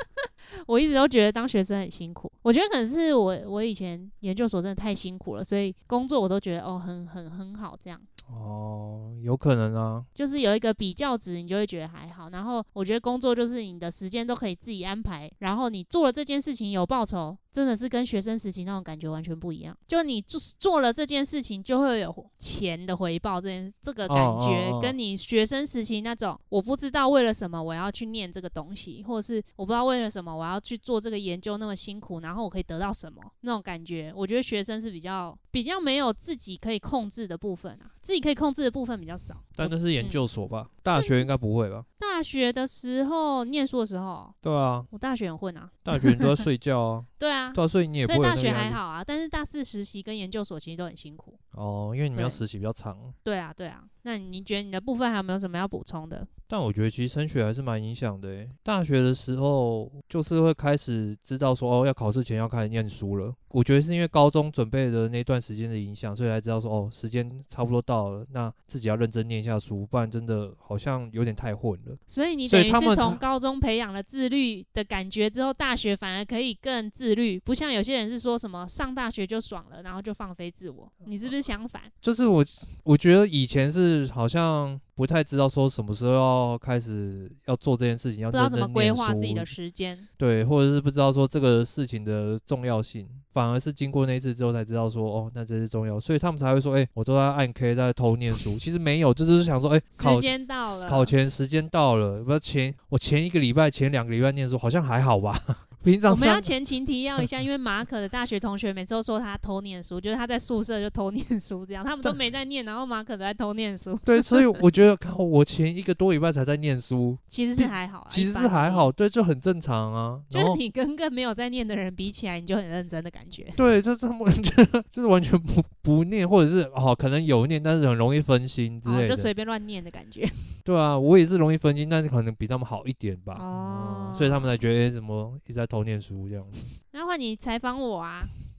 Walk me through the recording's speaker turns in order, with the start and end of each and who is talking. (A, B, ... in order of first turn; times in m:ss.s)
0:00.2-0:08.1 A
0:08.3-0:10.1 B
0:10.2-0:40.2 A
0:24.1-0:25.0 B
0:39.6-0:41.9 B
0:41.0-0:41.3 A
0:42.0-0:44.4 A
0:44.4-0:44.9 B
0:44.9-0:46.3 A
0:45.8-0:48.8 B
0:47.2-0:51.4 A
0:51.5-0:53.2 B
0:52.2-0:52.4 A
0:53.2-0:56.3 A
0:56.5-1:13.2 B
1:12.1-1:21.9 A
1:22.0-1:29.5 B
1:28.3-1:30.1 A
1:30.2-1:46.5 B
1:40.0-1:41.1 A
1:46.1-1:54.6 A
1:54.0-2:00.6 B
1:57.3-1:58.9 A
2:00.3-2:03.6 A
2:03.6-2:09.3 B
2:08.8-2:10.5 A
2:10.6-2:16.7 B
2:13.3-2:14.6 A
2:16.9-2:18.3 A